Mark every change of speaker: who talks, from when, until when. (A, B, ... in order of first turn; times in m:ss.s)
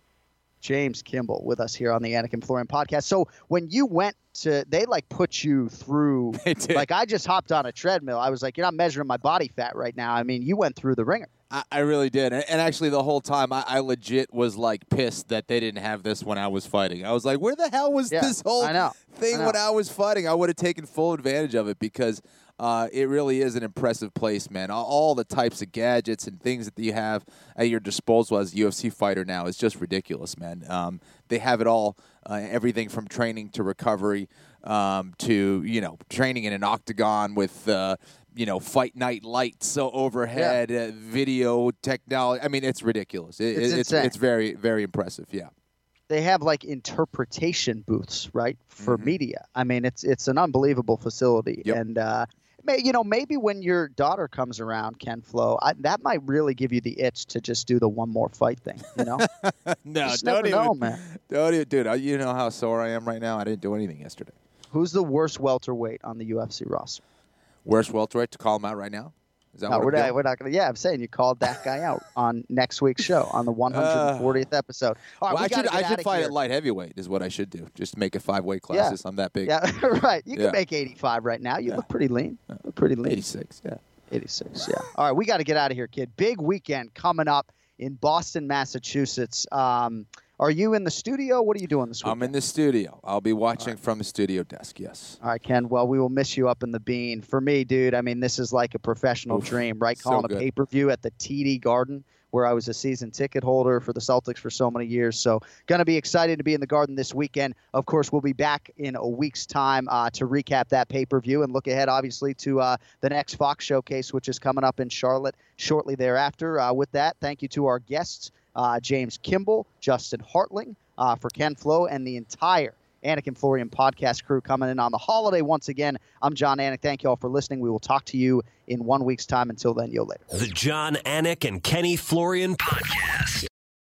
0:00.6-0:11.3 A
0:06.3-0:06.9 B
0:11.5-0:45.5 B
0:18.1-0:19.6 A
0:43.5-0:44.1 A
0:46.1-0:59.3 A
0:48.8-0:49.2 B
0:59.2-1:04.3 B
1:00.0-1:01.0 A
1:04.7-1:07.0 A
1:07.6-1:10.2 B
1:09.7-1:16.3 A
1:13.7-1:14.4 B
1:15.3-1:19.6 B
1:18.7-1:23.2 A
1:23.0-1:23.8 B
1:24.1-1:32.4 A
1:32.0-1:35.2 B
1:35.2-2:10.2 A
1:39.3-1:40.4 B
2:10.3-2:13.5 C